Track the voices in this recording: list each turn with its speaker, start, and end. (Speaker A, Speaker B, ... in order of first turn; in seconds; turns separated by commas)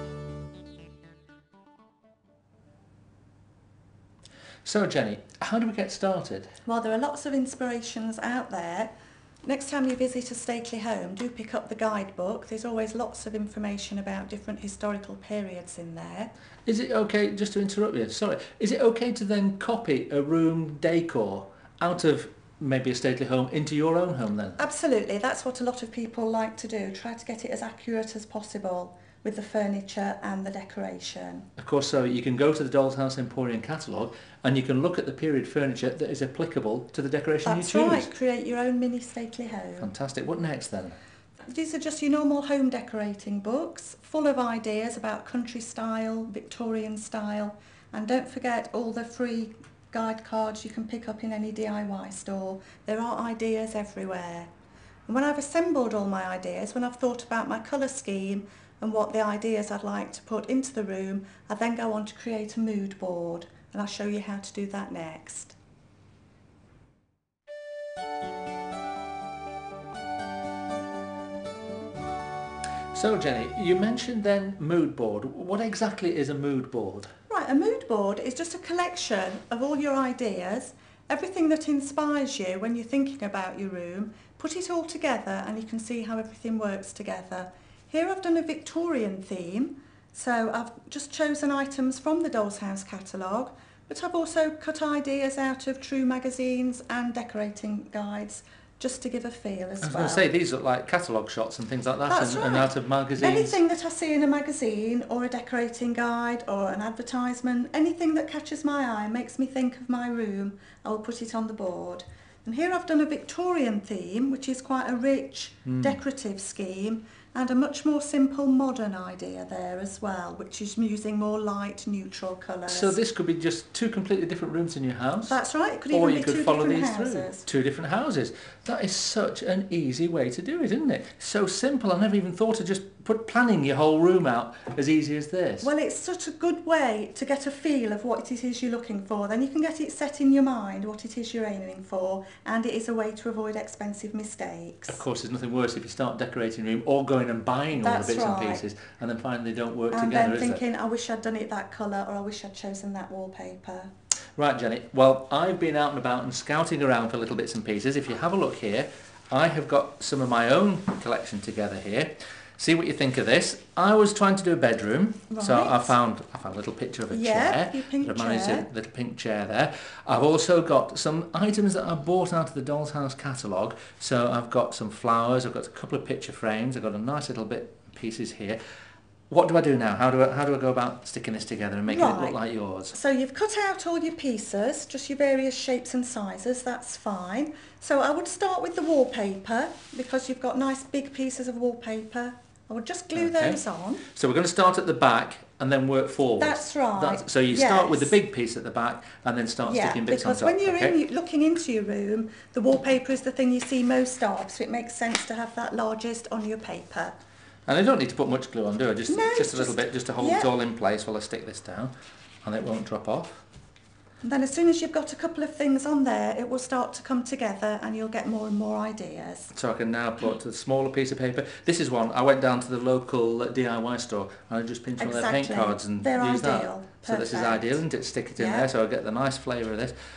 Speaker A: 4.6-6.5, Speaker B: 6.6-8.9, Speaker B: 9.4-16.3, Speaker A: 16.6-24.6, Speaker B: 24.6-31.5, Speaker A: 31.6-38.1, Speaker B: 37.4-39.9, Speaker A: 39.8-41.0, Speaker B: 41.5-54.5, Speaker B: 55.1-65.5, Speaker A: 72.9-77.1, Speaker B: 77.3-100.2, Speaker A: 99.8-103.6, Speaker B: 102.1-123.0, Speaker A: 115.7-116.0, Speaker A: 122.7-125.4, Speaker B: 125.3-127.4, Speaker A: 125.9-135.7, Speaker B: 135.6-145.0, Speaker A: 144.9-150.6, Speaker B: 147.7-148.6, Speaker B: 149.9-153.9, Speaker A: 154.4-178.6, Speaker B: 165.3-165.9, Speaker B: 167.1-168.7, Speaker A: 179.3-182.9, Speaker B: 181.8-182.4, Speaker B: 182.9-194.0, Speaker A: 193.1-193.6, Speaker A: 194.1-200.9, Speaker B: 196.4-198.1, Speaker B: 199.6-207.1, Speaker A: 207.7-211.9, Speaker B: 209.1-210.5, Speaker A: 212.4-213.4, Speaker B: 214.2-219.5, Speaker A: 219.5-229.9, Speaker B: 225.0-227.8, Speaker B: 228.4-228.7